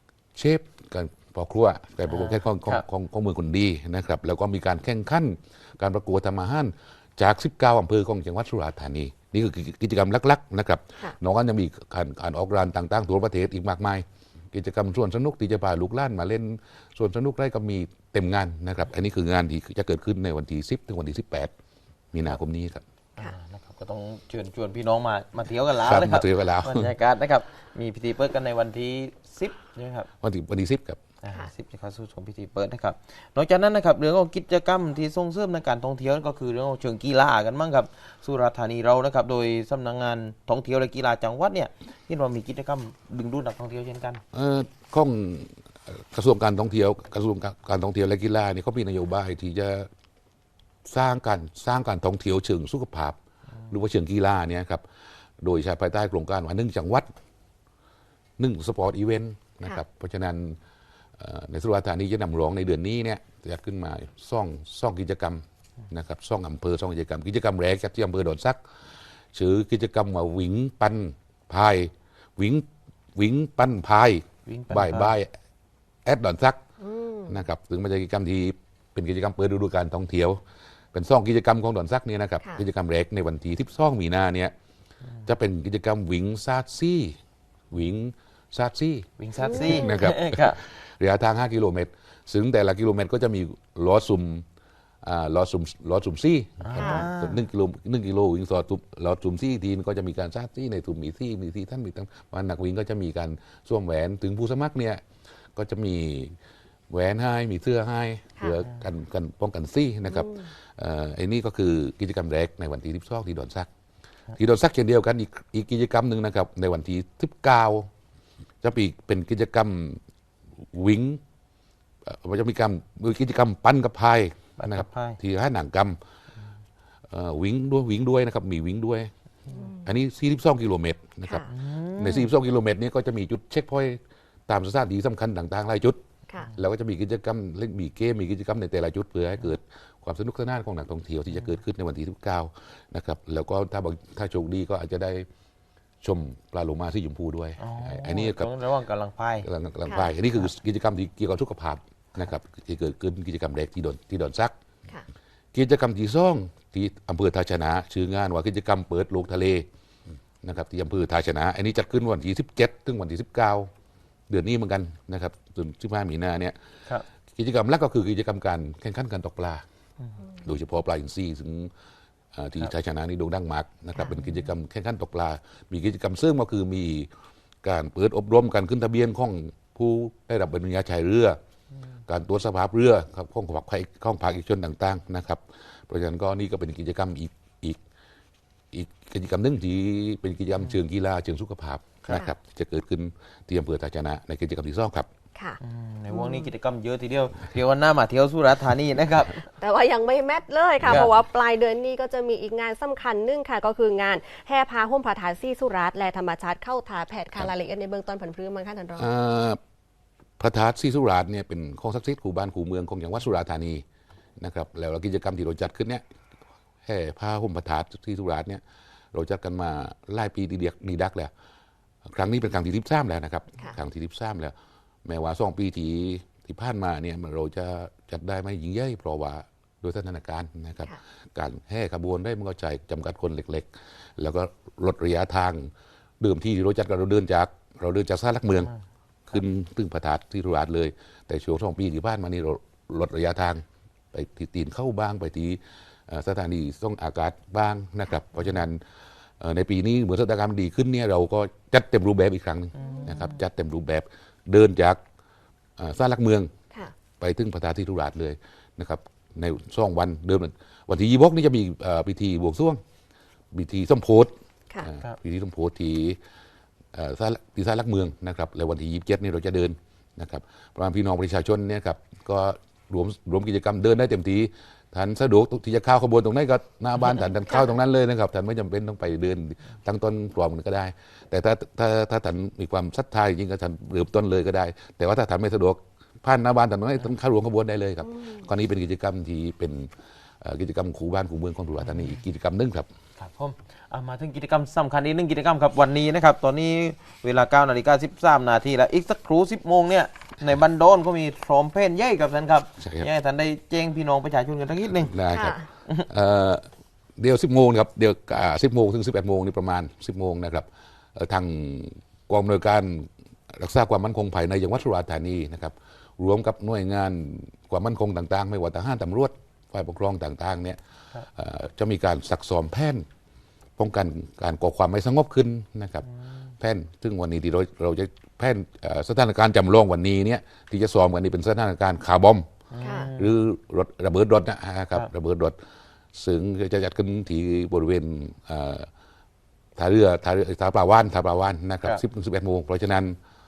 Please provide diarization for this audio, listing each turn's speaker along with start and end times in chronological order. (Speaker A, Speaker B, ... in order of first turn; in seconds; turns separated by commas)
Speaker A: 0.3-21.5, Speaker B: 2.1-2.8, Speaker A: 22.1-22.8, Speaker B: 23.2-30.1, Speaker A: 25.8-26.9, Speaker A: 30.2-31.0, Speaker B: 31.2-44.2, Speaker A: 44.3-49.9, Speaker A: 50.9-53.2, Speaker A: 53.7-54.8, Speaker A: 55.4-57.1, Speaker A: 58.4-60.6, Speaker A: 61.2-68.6, Speaker A: 69.3-75.3, Speaker B: 74.5-75.2, Speaker A: 76.0-76.6, Speaker C: 76.8-77.4, Speaker A: 77.3-80.4, Speaker A: 80.9-84.5, Speaker A: 85.3-87.2, Speaker A: 87.7-94.5, Speaker B: 89.2-90.6, Speaker C: 89.5-90.0, Speaker A: 95.0-105.0, Speaker B: 96.6-97.5, Speaker C: 96.8-97.1, Speaker A: 105.6-106.3, Speaker A: 106.9-113.7, Speaker C: 110.1-110.5, Speaker A: 114.4-117.9, Speaker A: 118.6-120.0, Speaker A: 120.7-121.2, Speaker A: 122.1-126.0, Speaker B: 124.6-125.2, Speaker A: 127.1-129.1, Speaker C: 129.5-129.8, Speaker A: 129.8-136.0, Speaker B: 131.5-132.3, Speaker A: 136.6-145.3, Speaker A: 146.0-148.5, Speaker B: 147.6-149.5, Speaker A: 149.4-154.6, Speaker C: 149.9-150.1, Speaker A: 155.5-159.7, Speaker A: 160.4-163.7, Speaker A: 164.3-166.6, Speaker A: 167.3-169.6, Speaker A: 170.4-171.7, Speaker A: 172.3-177.1, Speaker A: 177.6-181.4, Speaker A: 182.1-187.8, Speaker A: 188.7-195.1, Speaker B: 195.6-199.4, Speaker C: 196.1-196.5, Speaker C: 199.6-209.1, Speaker A: 200.8-201.1, Speaker B: 200.9-201.1, Speaker A: 209.0-209.6, Speaker A: 210.4-213.8, Speaker A: 214.4-216.0, Speaker A: 216.9-218.6, Speaker A: 219.1-221.3, Speaker A: 222.1-224.5, Speaker A: 225.1-238.7, Speaker A: 239.3-248.8, Speaker A: 249.4-255.0, Speaker B: 252.8-253.3, Speaker C: 252.8-253.1, Speaker A: 255.8-256.5, Speaker A: 257.2-262.8, Speaker A: 263.5-266.2, Speaker A: 266.9-292.9, Speaker B: 291.8-292.2, Speaker B: 293.2-305.1, Speaker A: 302.8-303.1, Speaker A: 305.0-320.8, Speaker C: 305.3-305.7, Speaker A: 321.4-323.1, Speaker A: 323.8-326.1, Speaker A: 326.6-332.5, Speaker B: 332.7-333.3, Speaker C: 332.8-333.1, Speaker A: 333.1-335.6, Speaker A: 336.1-338.9, Speaker A: 339.8-343.2